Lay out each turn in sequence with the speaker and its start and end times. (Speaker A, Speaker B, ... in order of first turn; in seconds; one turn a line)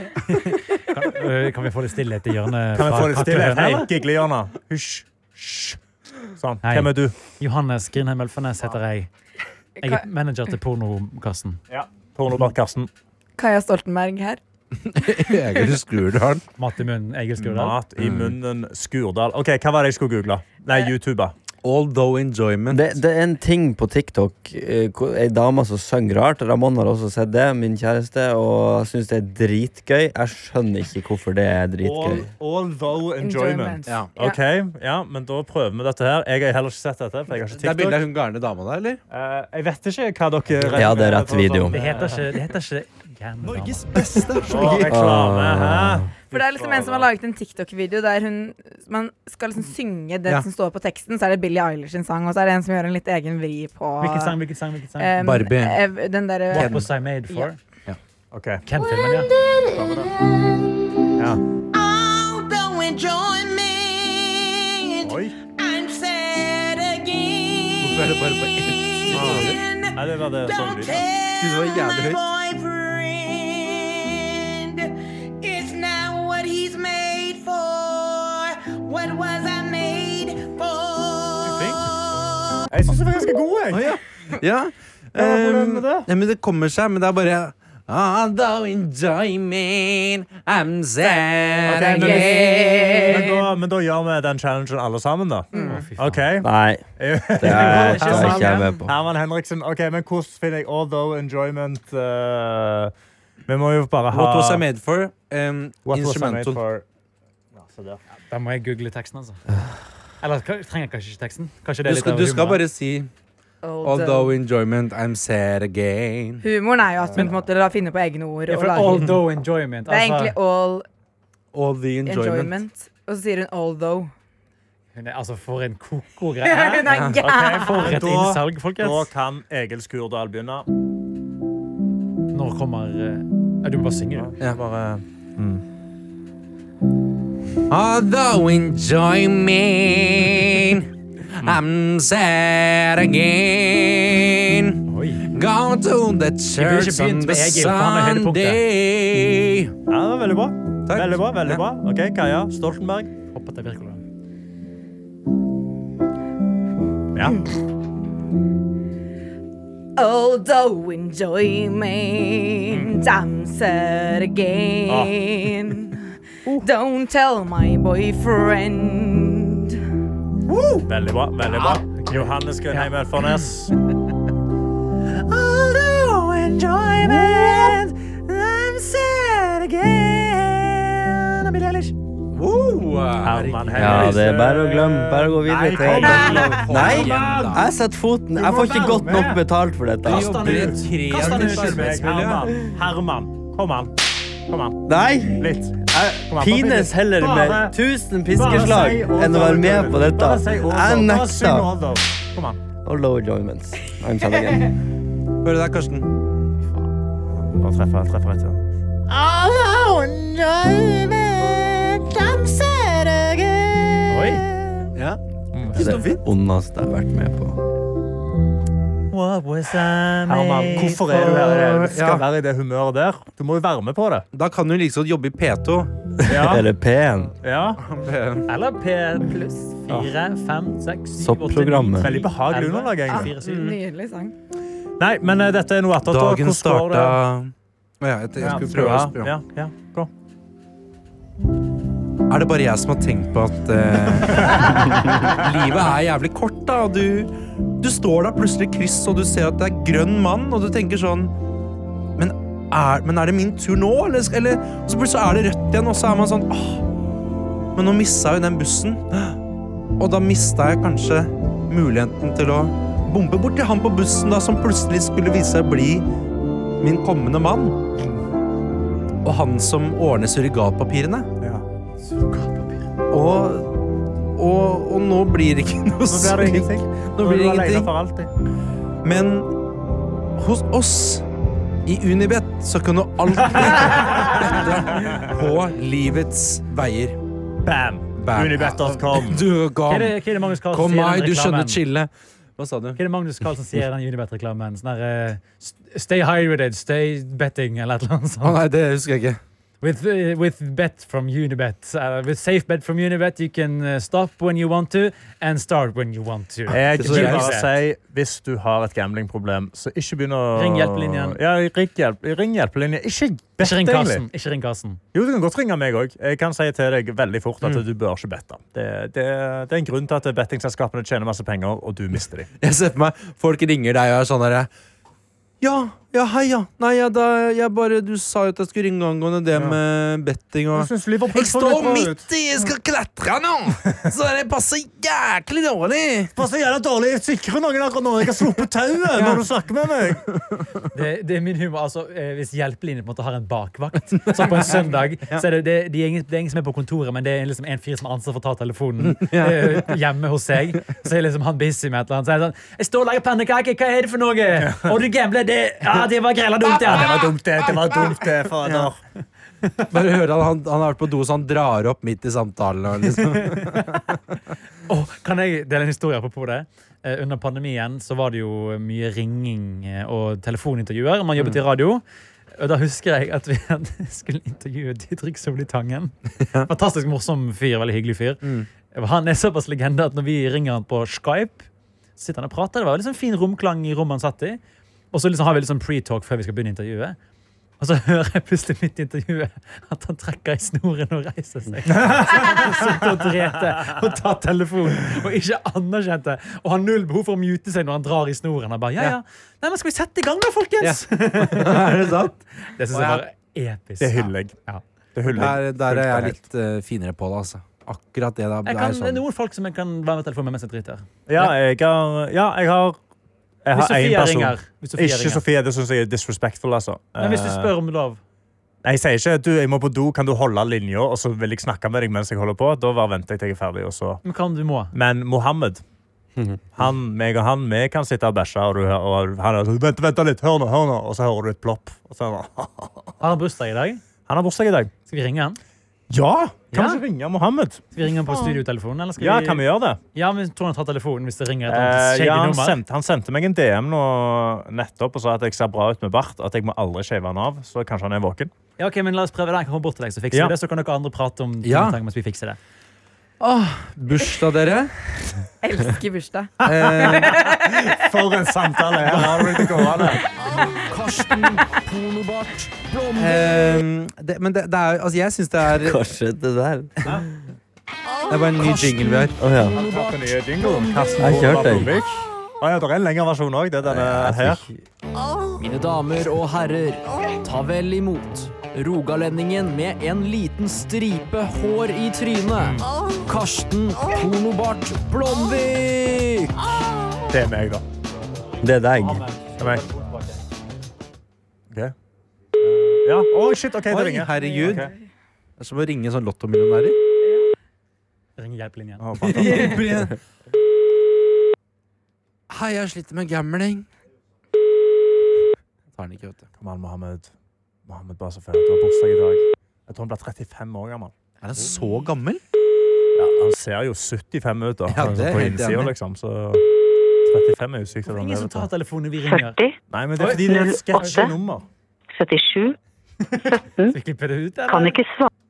Speaker A: 0.3-3.9
Speaker B: 2.8-5.8
Speaker B: 6.4-7.2
Speaker A: 6.6-9.1
Speaker A: 9.8-11.6
Speaker B: 11.7-12.9
Speaker C: 13.4-14.4
Speaker D: 14.8-16.4
Speaker A: 16.6-17.8
Speaker B: 17.4-21.3
Speaker D: 18.0-18.4
Speaker D: 21.6-22.9
Speaker E: 22.7-32.3
Speaker B: 31.8-38.0
Speaker C: 33.2-34.4
Speaker D: 37.5-39.0
Speaker B: 39.1-42.2
Speaker E: 40.7-41.8
Speaker A: 41.7-44.1
Speaker D: 43.5-45.0
Speaker B: 44.4-47.1
Speaker E: 44.9-46.1
Speaker C: 46.3-54.4
Speaker A: 54.0-55.1
Speaker C: 55.0-57.5
Speaker D: 55.2-55.8
Speaker A: 56.5-57.6
Speaker D: 56.5-56.9
Speaker B: 58.3-58.6
Speaker A: 58.6-59.3
Speaker B: 59.7-60.1
Speaker B: 61.2-61.4
Speaker F: 62.4-63.6
Speaker B: 65.0-65.3
Speaker F: 65.7-66.3
Speaker D: 67.8-69.6
Speaker B: 69.1-71.1
Speaker C: 69.1-69.6
Speaker C: 70.7-71.1
Speaker D: 71.3-72.2
Speaker F: 71.7-72.0
Speaker A: 81.5-81.8
Speaker B: 82.7-83.9
Speaker D: 83.7-93.4
Speaker B: 85.2-86.1
Speaker B: 91.7-102.9
Speaker C: 91.7-93.4
Speaker C: 95.5-95.8
Speaker A: 95.5-96.2
Speaker E: 96.4-96.8
Speaker E: 97.4-98.9
Speaker A: 97.4-98.7
Speaker B: 103.5-104.7
Speaker D: 104.1-106.6
Speaker B: 105.9-106.8
Speaker B: 107.6-108.0
Speaker A: 108.3-109.4
Speaker A: 110.2-112.6
Speaker D: 111.8-113.1
Speaker C: 113.6-114.3
Speaker D: 113.8-116.5
Speaker C: 116.4-119.2
Speaker A: 118.5-120.3
Speaker C: 119.9-120.8
Speaker D: 121.5-122.6
Speaker C: 122.0-124.1
Speaker A: 125.0-129.1
Speaker C: 126.4-128.0
Speaker D: 126.9-127.2
Speaker B: 127.2-130.7
Speaker A: 132.3-134.3
Speaker B: 134.2-135.6
Speaker D: 137.7-149.7
Speaker A: 144.9-145.3
Speaker A: 146.6-148.6
Speaker B: 149.9-153.1
Speaker D: 150.9-151.6
Speaker A: 153.3-154.0
Speaker B: 157.2-157.4
Speaker C: 160.0-166.1
Speaker B: 164.9-165.1
Speaker C: 166.6-169.8
Speaker B: 170.5-173.7
Speaker A: 171.6-172.9
Speaker B: 175.2-181.7
Speaker A: 176.7-177.9
Speaker D: 182.3-184.0
Speaker B: 183.2-187.3
Speaker E: 183.7-190.3
Speaker D: 186.0-187.7
Speaker B: 188.4-189.4
Speaker D: 190.0-192.5
Speaker A: 190.1-192.0
Speaker B: 190.5-193.9
Speaker B: 194.5-197.8
Speaker E: 194.8-201.7
Speaker B: 198.3-202.6
Speaker E: 202.8-204.7
Speaker D: 205.4-206.1
Speaker B: 207.3-214.9
Speaker A: 214.1-214.4
Speaker B: 215.5-215.8
Speaker D: 215.7-216.2
Speaker E: 215.8-217.6
Speaker A: 219.1-221.1
Speaker B: 220.3-224.3
Speaker D: 220.9-222.2
Speaker D: 224.3-225.9
Speaker E: 226.2-227.3
Speaker B: 226.3-226.7
Speaker B: 227.4-227.8
Speaker D: 227.8-228.5
Speaker A: 228.5-233.8
Speaker C: 229.3-229.7
Speaker E: 231.2-232.1
Speaker B: 232.0-233.3
Speaker C: 233.1-234.3
Speaker B: 235.0-237.2
Speaker D: 236.1-239.3
Speaker B: 238.4-240.1
Speaker D: 242.3-251.3
Speaker D: 252.2-256.9
Speaker D: 257.8-259.4
Speaker D: 260.0-266.1
Speaker D: 266.8-267.8
Speaker D: 269.2-271.3
Speaker A: 272.0-272.8
Speaker D: 273.1-273.8
Speaker D: 274.4-277.9
Speaker B: 276.1-278.3
Speaker D: 279.0-279.6
Speaker D: 280.4-281.3
Speaker D: 281.9-287.2
Speaker B: 287.6-289.5
Speaker D: 288.2-290.2
Speaker A: 289.9-291.8
Speaker D: 290.7-293.0
Speaker A: 293.0-298.6
Speaker D: 298.4-299.4
Speaker A: 299.8-307.7
Speaker B: 306.7-314.2
Speaker D: 306.8-307.6
Speaker A: 310.6-311.4
Speaker A: 313.6-315.0
Speaker B: 315.1-322.5
Speaker D: 322.6-324.7
Speaker D: 325.6-336.3
Speaker B: 330.8-332.3
Speaker B: 336.4-340.2
Speaker D: 339.1-339.4
Speaker D: 340.3-340.7
Speaker A: 340.9-357.2
Speaker D: 344.4-344.8
Speaker D: 349.0-350.0
Speaker B: 354.6-354.9
Speaker D: 356.8-358.9
Speaker B: 356.8-359.0
Speaker D: 359.9-364.2
Speaker A: 363.4-363.8
Speaker A: 364.9-372.0
Speaker A: 372.6-384.6
Speaker D: 376.4-376.7
Speaker D: 378.4-378.7
Speaker A: 385.1-387.2
Speaker A: 387.8-404.8
Speaker B: 392.0-392.9
Speaker D: 400.8-402.4
Speaker D: 402.9-403.2
Speaker B: 404.0-404.5
Speaker B: 405.1-406.4
Speaker D: 405.3-409.2
Speaker A: 408.6-411.5
Speaker B: 411.3-413.0
Speaker B: 413.6-417.7
Speaker A: 413.8-415.4
Speaker A: 417.2-418.2
Speaker B: 418.8-424.2
Speaker A: 424.2-424.9
Speaker B: 424.9-425.8
Speaker B: 426.8-433.1
Speaker A: 433.2-434.0
Speaker B: 434.3-434.9
Speaker A: 435.1-435.6
Speaker B: 436.1-437.8
Speaker A: 436.7-437.0
Speaker A: 437.9-442.8
Speaker B: 439.2-440.0
Speaker B: 441.7-448.5
Speaker A: 448.8-452.6
Speaker D: 451.6-452.0
Speaker D: 453.4-454.9
Speaker C: 455.6-457.9
Speaker D: 456.6-457.4
Speaker B: 456.6-460.2
Speaker D: 459.1-459.5
Speaker G: 460.4-463.8
Speaker D: 463.1-466.0
Speaker E: 465.7-467.2
Speaker D: 468.3-469.4
Speaker G: 468.6-471.1
Speaker E: 469.4-469.8
Speaker B: 469.8-474.6
Speaker E: 471.2-472.0
Speaker E: 473.8-474.8
Speaker G: 475.6-486.7
Speaker B: 482.6-482.9
Speaker B: 487.3-487.8
Speaker E: 488.6-489.3
Speaker A: 489.0-490.4
Speaker D: 492.6-493.0
Speaker B: 493.0-494.9
Speaker D: 493.9-494.9
Speaker C: 494.4-494.9
Speaker D: 495.6-497.0
Speaker C: 497.2-497.5
Speaker A: 498.4-499.5
Speaker B: 499.0-500.0
Speaker D: 499.2-500.1
Speaker D: 502.5-503.9
Speaker D: 505.9-506.5
Speaker B: 506.6-507.3
Speaker B: 507.9-511.1
Speaker D: 511.4-512.4
Speaker B: 513.2-516.6
Speaker D: 514.9-515.9
Speaker B: 517.3-518.7
Speaker A: 518.1-519.6
Speaker H: 519.3-519.8
Speaker B: 519.9-521.7
Speaker A: 520.2-521.3
Speaker H: 520.5-521.4
Speaker H: 522.2-522.8
Speaker A: 523.3-525.0
Speaker H: 523.5-524.0
Speaker H: 524.7-525.3